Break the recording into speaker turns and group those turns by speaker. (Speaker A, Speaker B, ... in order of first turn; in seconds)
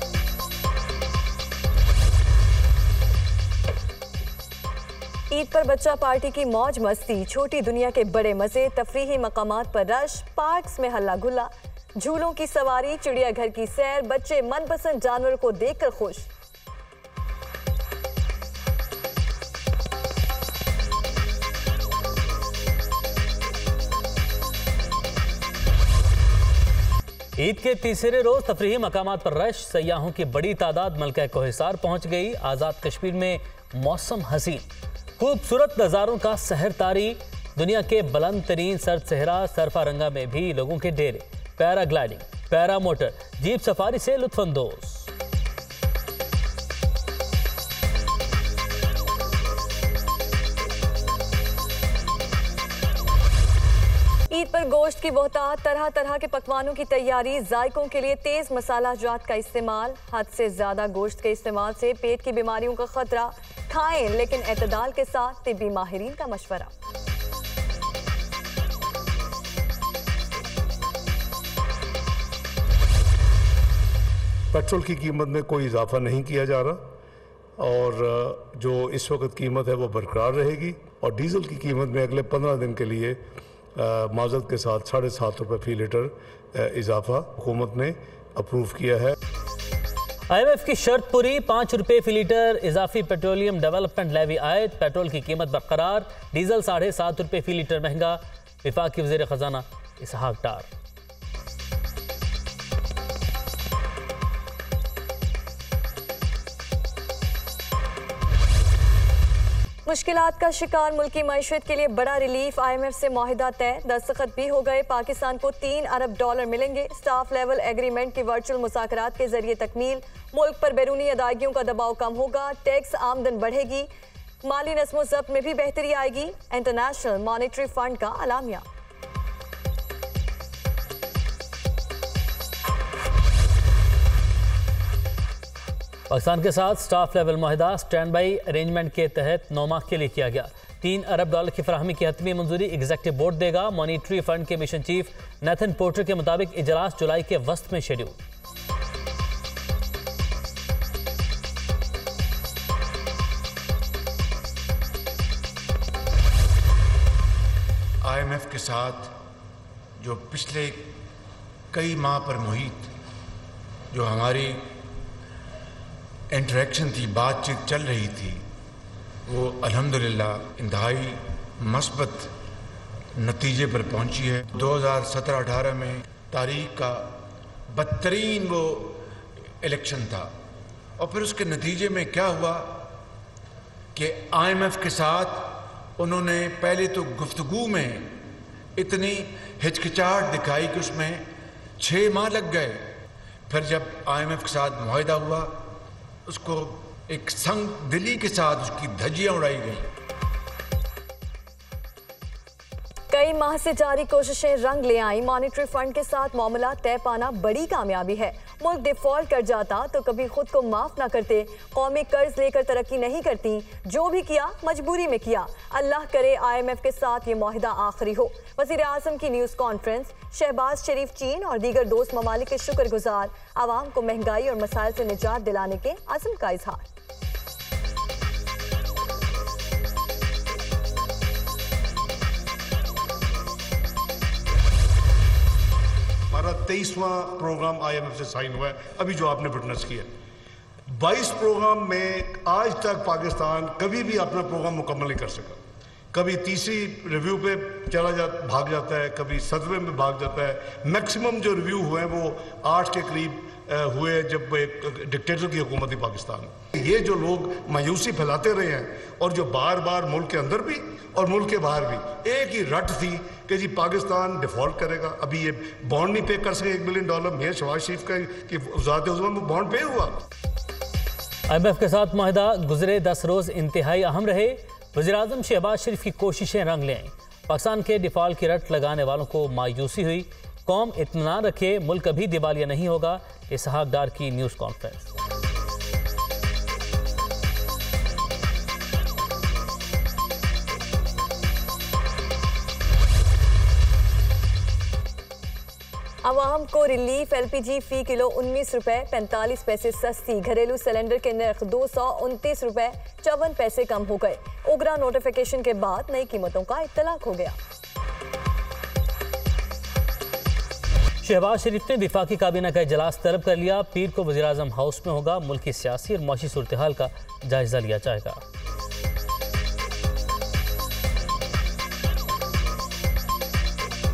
Speaker A: 5.3-16.3, 54.3-66.7, 109.8-123.9, 124.4-128.6, 203.1-226.8, 296.2-307.6
Speaker B: 27.4-34.7, 35.2-45.1, 90.3-100.7, 136.1-148.2, 271.5-285.1, 311.2-318.4
Speaker C: 74.5-76.9, 77.6-83.2, 83.7-89.1, 236.3-240.1, 240.9-245.6, 246.1-270.2
Speaker D: 158.0-159.1, 160.0-160.9, 161.7-162.9, 163.9-164.7, 166.3-168.4, 169.3-172.3, 173.2-177.1, 177.7-179.0, 179.6-180.3, 181.0-182.9, 183.9-188.1, 188.8-191.3, 191.8-192.8, 193.5-195.6, 196.3-199.9